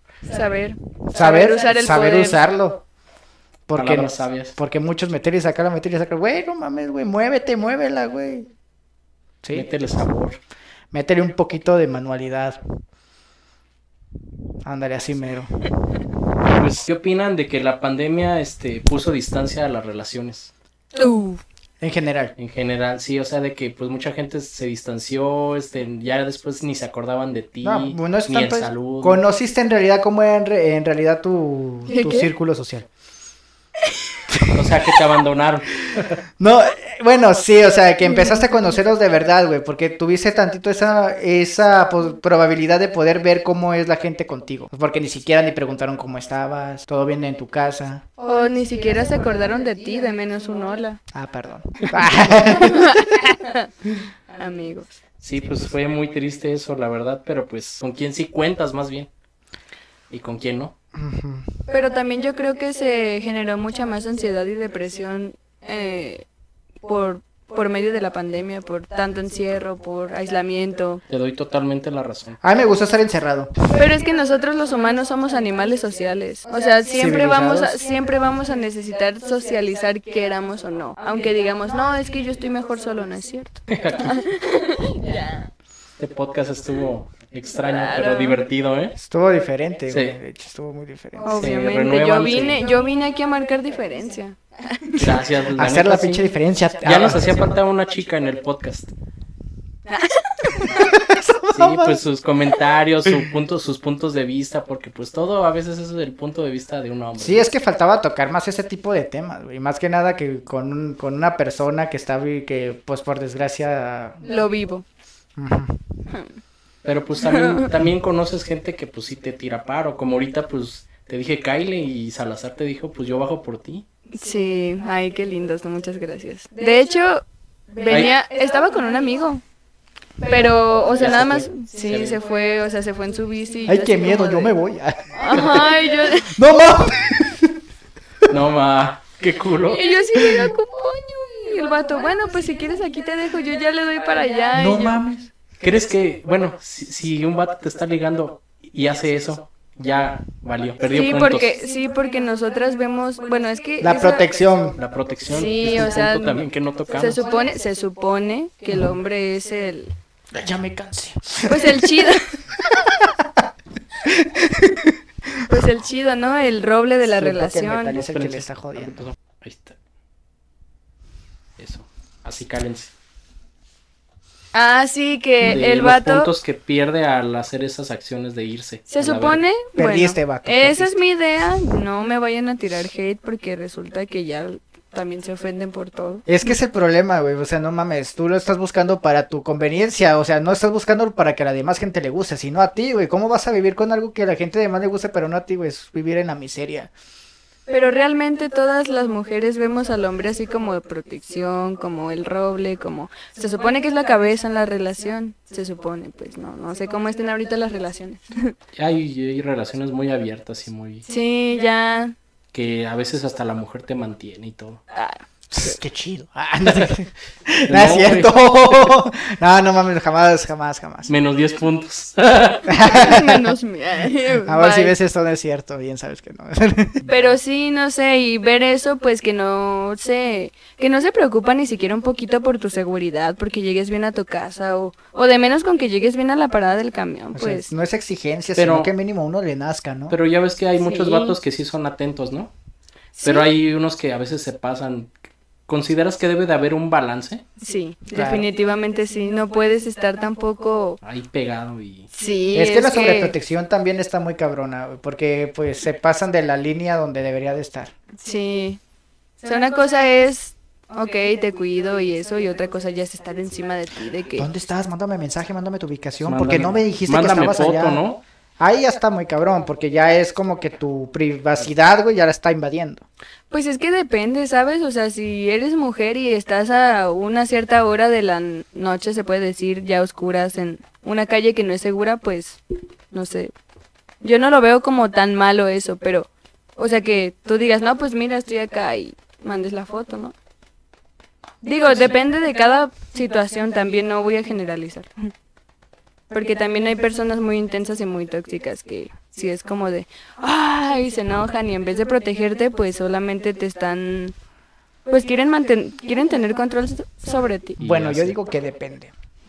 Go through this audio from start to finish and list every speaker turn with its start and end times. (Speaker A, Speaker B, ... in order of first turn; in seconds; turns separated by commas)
Speaker A: 0.2-2.4, Speaker B: 1.1-2.8, Speaker B: 3.7-8.5, Speaker C: 3.7-4.5, Speaker B: 9.4-9.8, Speaker C: 9.5-10.4, Speaker B: 10.9-12.6, Speaker B: 14.6-15.5, Speaker C: 16.5-20.5, Speaker A: 20.9-21.4, Speaker B: 21.8-22.3, Speaker C: 22.4-29.2, Speaker B: 27.6-32.9, Speaker A: 31.9-32.3, Speaker B: 34.3-34.7, Speaker C: 34.5-36.2, Speaker B: 35.9-48.0, Speaker A: 48.2-51.0, Speaker B: 51.1-53.0, Speaker A: 52.4-53.7, Speaker A: 54.3-54.9, Speaker C: 55.2-59.1, Speaker C: 60.1-60.7, Speaker B: 60.9-61.5, Speaker A: 61.7-66.2, Speaker A: 66.8-71.0, Speaker C: 71.1-72.4, Speaker B: 72.4-73.5, Speaker A: 73.7-85.5, Speaker B: 76.9-77.8, Speaker C: 83.7-84.2, Speaker C: 86.0-89.0, Speaker A: 87.7-88.4, Speaker B: 89.0-91.4, Speaker C: 89.9-90.2, Speaker A: 91.2-95.1, Speaker C: 91.4-92.6, Speaker C: 95.0-96.3, Speaker B: 95.5-97.4, Speaker C: 96.8-98.9, Speaker A: 99.9-100.9, Speaker B: 100.7-102.0, Speaker C: 101.5-107.5, Speaker B: 107.2-114.2, Speaker A: 114.2-114.8, Speaker B: 115.4-115.8, Speaker A: 116.1-116.3, Speaker C: 116.8-123.8, Speaker A: 117.2-117.7, Speaker A: 124.1-129.4, Speaker A: 130.2-134.5, Speaker C: 130.9-132.2, Speaker B: 133.7-137.6, Speaker A: 135.1-136.3, Speaker C: 135.3-135.6, Speaker C: 138.3-139.9, Speaker A: 139.7-145.0, Speaker B: 144.5-145.3, Speaker C: 145.6-151.5, Speaker A: 150.9-154.3, Speaker B: 153.8-154.8, Speaker C: 154.8-157.2, Speaker A: 155.3-159.9, Speaker B: 160.3-162.1, Speaker A: 161.4-162.4, Speaker B: 162.6-163.5, Speaker B: 164.0-165.4, Speaker A: 165.5-168.0, Speaker B: 167.2-169.0, Speaker C: 167.9-169.8, Speaker C: 171.6-172.9, Speaker A: 174.5-176.3, Speaker C: 175.4-179.4, Speaker A: 178.9-186.2, Speaker B: 179.8-180.9, Speaker B: 186.2-196.9, Speaker A: 197.7-208.5, Speaker C: 208.7-211.0, Speaker A: 211.1-212.1, Speaker C: 212.5-214.8, Speaker A: 214.9-215.8, Speaker B: 215.5-221.1, Speaker C: 216.7-216.9, Speaker C: 217.7-218.8, Speaker C: 221.1-222.8, Speaker B: 222.7-223.5, Speaker A: 222.8-224.9, Speaker B: 224.4-227.1, Speaker A: 227.0-237.7, Speaker B: 237.3-240.2, Speaker C: 238.5-238.9, Speaker C: 240.1-242.5, Speaker A: 240.8-241.3, Speaker A: 243.2-243.5, Speaker C: 243.2-245.1, Speaker C: 245.7-247.4, Speaker A: 247.6-251.0, Speaker B: 248.1-248.4, Speaker C: 251.0-252.1, Speaker A: 252.1-253.3, Speaker B: 252.5-257.9, Speaker A: 258.2-258.8, Speaker A: 259.4-264.5, Speaker B: 264.4-268.0, Speaker C: 266.2-268.2, Speaker B: 268.6-273.0, Speaker A: 273.5-282.6, Speaker A: 283.1-283.5, Speaker A: 284.2-290.3, Speaker A: 291.6-295.3, Speaker A: 296.3-304.3, Speaker A: 305.1-307.8, Speaker C: 307.8-308.4, Speaker B: 307.8-309.1